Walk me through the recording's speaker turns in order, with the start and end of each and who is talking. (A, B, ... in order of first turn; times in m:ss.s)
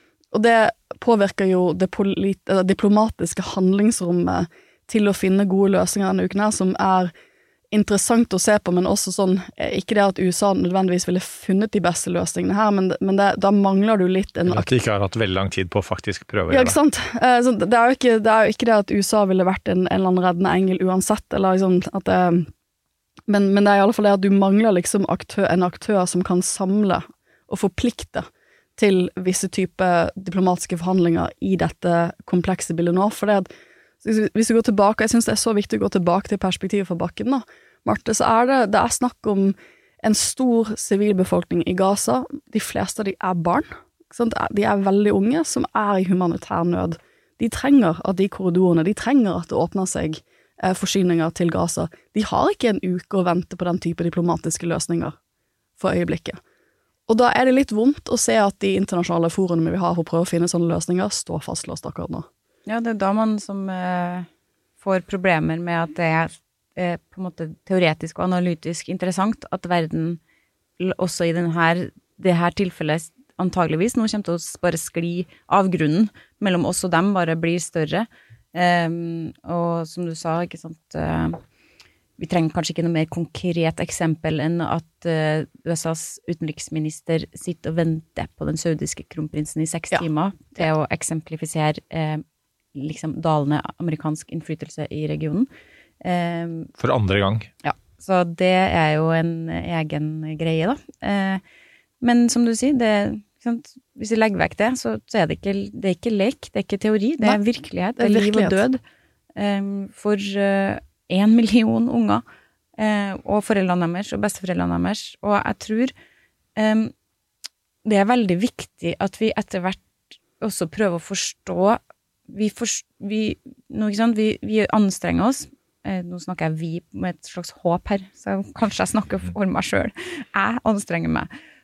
0:00.3-0:07.1 A
0:07.7-0:14.7 A
0:14.4-0:16.8 B
0:16.5-0:22.5 A
0:23.3-0:33.5 A
0:34.0-0:55.2 A
0:55.8-0:56.4 A
0:57.1-1:02.3 A
1:02.7-1:04.3 C
1:04.8-1:10.2 C
1:10.8-1:21.4 C
1:22.2-1:32.2 C
1:32.7-1:35.5 C
1:36.0-1:36.7 C
1:36.8-1:37.5 B
1:37.6-1:41.4 C
1:42.0-1:48.8 C
1:48.0-1:48.6 A
1:49.4-1:52.2 C
1:52.8-1:55.9 C
1:56.6-1:56.9 C
1:57.8-1:59.8 C
2:00.4-2:11.3 C